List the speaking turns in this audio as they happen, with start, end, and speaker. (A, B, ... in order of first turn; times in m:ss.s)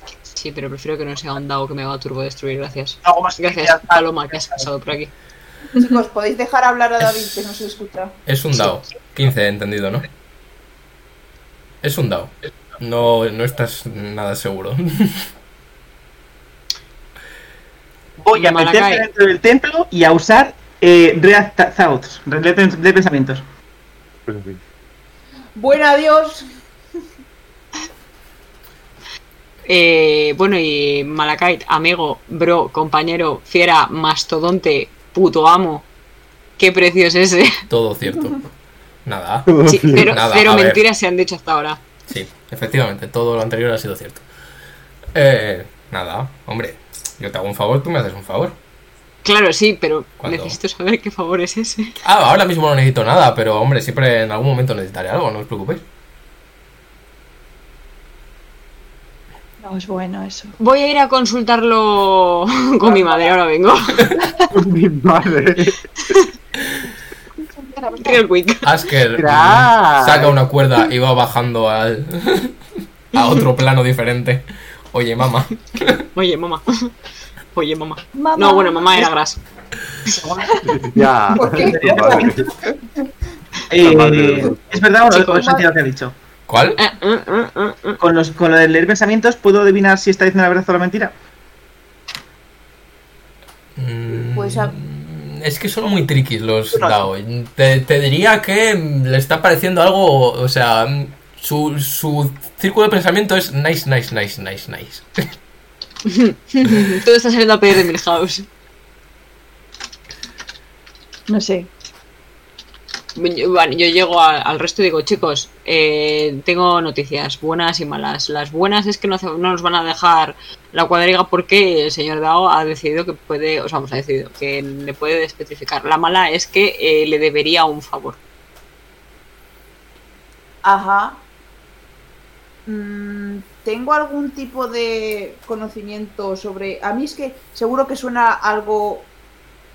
0:00.3-0:05.1 A
0:03.0-0:04.7 B
0:05.8-0:08.2 C
0:08.2-0:10.1 D
0:11.8-0:15.3 D
0:18.2-0:23.4 B
0:18.3-0:19.0 A
0:24.3-0:24.6 E
0:25.6-0:26.4 C
0:29.6-0:35.8 A
0:36.6-0:37.6 A
0:37.7-0:38.5 D
0:39.0-0:40.8 D
0:39.5-0:40.2 E
0:39.7-0:41.8 A
0:42.1-0:44.2 D
0:45.1-0:48.6 D
0:49.2-0:52.0 A
0:50.2-0:50.6 D
0:52.0-0:55.8 D
0:59.6-1:00.5 F
1:00.6-1:04.2 A
1:02.8-1:03.3 B
1:04.5-1:05.8 E
1:07.6-1:08.2 C
1:08.0-1:08.7 A
1:08.6-1:12.5 D
1:09.1-1:10.4 E
1:13.1-1:16.0 D
1:16.1-1:16.9 A
1:17.5-1:19.4 A
1:18.1-1:19.1 F
1:20.1-1:20.7 B
1:20.6-1:22.4 E
1:21.3-1:22.5 C
1:21.5-1:22.5 B
1:23.7-1:26.1 B
1:23.8-1:24.7 E
1:25.1-1:25.6 A
1:25.3-1:25.6 C
1:26.5-1:26.8 D
1:26.8-1:28.0 A
1:28.0-1:31.1 B
1:33.8-1:45.1 D
1:34.2-1:34.7 C
1:46.0-1:48.5 A
1:51.3-1:51.7 F
1:53.2-2:08.2 A
2:10.6-2:11.2 C
2:12.6-2:19.1 C